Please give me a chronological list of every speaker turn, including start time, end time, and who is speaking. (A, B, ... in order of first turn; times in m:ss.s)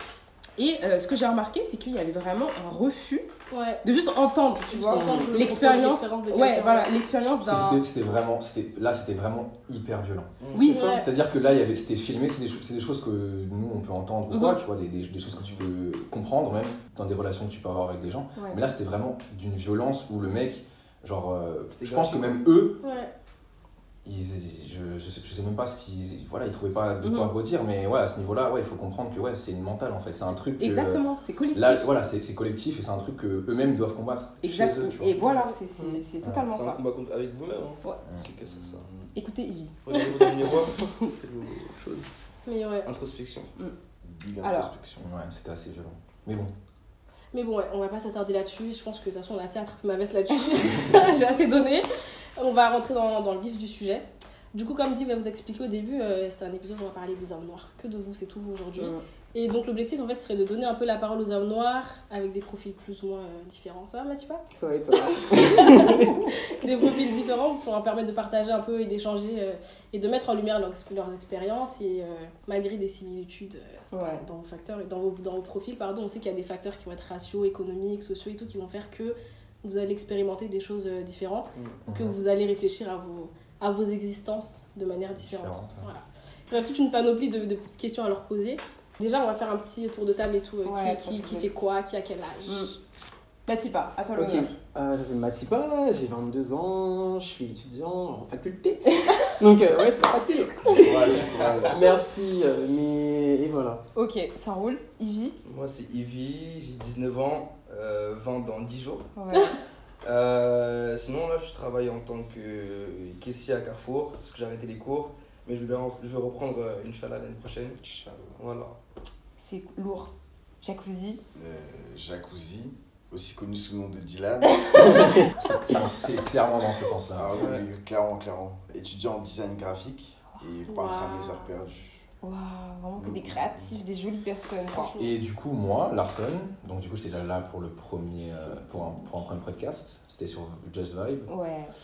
0:00.6-0:03.3 A
0:03.5-0:03.8 B
0:03.8-0:07.8 A
0:04.7-0:07.0 B
0:04.9-0:05.4 C
0:07.4-0:22.8 D
0:10.4-0:10.7 E
0:10.5-0:10.9 A
0:10.6-0:11.0 C
0:10.7-0:11.1 B
0:14.3-0:14.6 A
0:21.8-0:22.4 E
0:22.8-0:23.1 B
0:24.0-0:35.2 D
0:27.0-0:27.3 A
0:30.2-0:31.9 A
0:34.4-0:36.8 A
0:35.2-0:35.5 E
0:36.2-0:36.5 D
0:36.5-0:38.9 E
0:38.4-0:39.1 F
0:39.2-0:41.1 A
0:39.9-0:42.1 E
0:42.5-0:42.9 B
0:42.8-0:43.5 E
0:44.0-0:45.1 F
0:44.4-0:44.7 A
0:45.0-0:46.5 D
0:47.3-1:04.4 B
0:58.8-0:59.0 A
1:04.5-1:06.3 C
1:05.4-1:32.8 B
1:13.9-1:14.2 A
1:21.9-1:22.2 D
1:25.2-1:25.9 D
1:30.6-1:31.5 A
1:33.5-1:34.5 A
1:34.2-1:43.8 C
1:38.9-1:39.3 A
1:40.7-1:41.7 E
1:40.7-1:41.8 F
1:44.0-1:45.4 A
1:45.4-1:49.1 E
1:49.2-1:49.6 A
1:50.0-1:57.8 E
1:57.8-1:58.4 F
1:58.4-1:58.8 E
1:59.4-2:01.2 A
2:01.4-2:05.1 F
2:05.3-2:07.4 D
2:07.2-2:12.0 F
2:07.4-2:07.6 E
2:10.7-2:11.5 B
2:12.2-2:15.0 A
2:13.0-2:13.8 F
2:14.7-2:15.1 B
2:15.0-2:21.3 D
2:21.3-2:21.7 A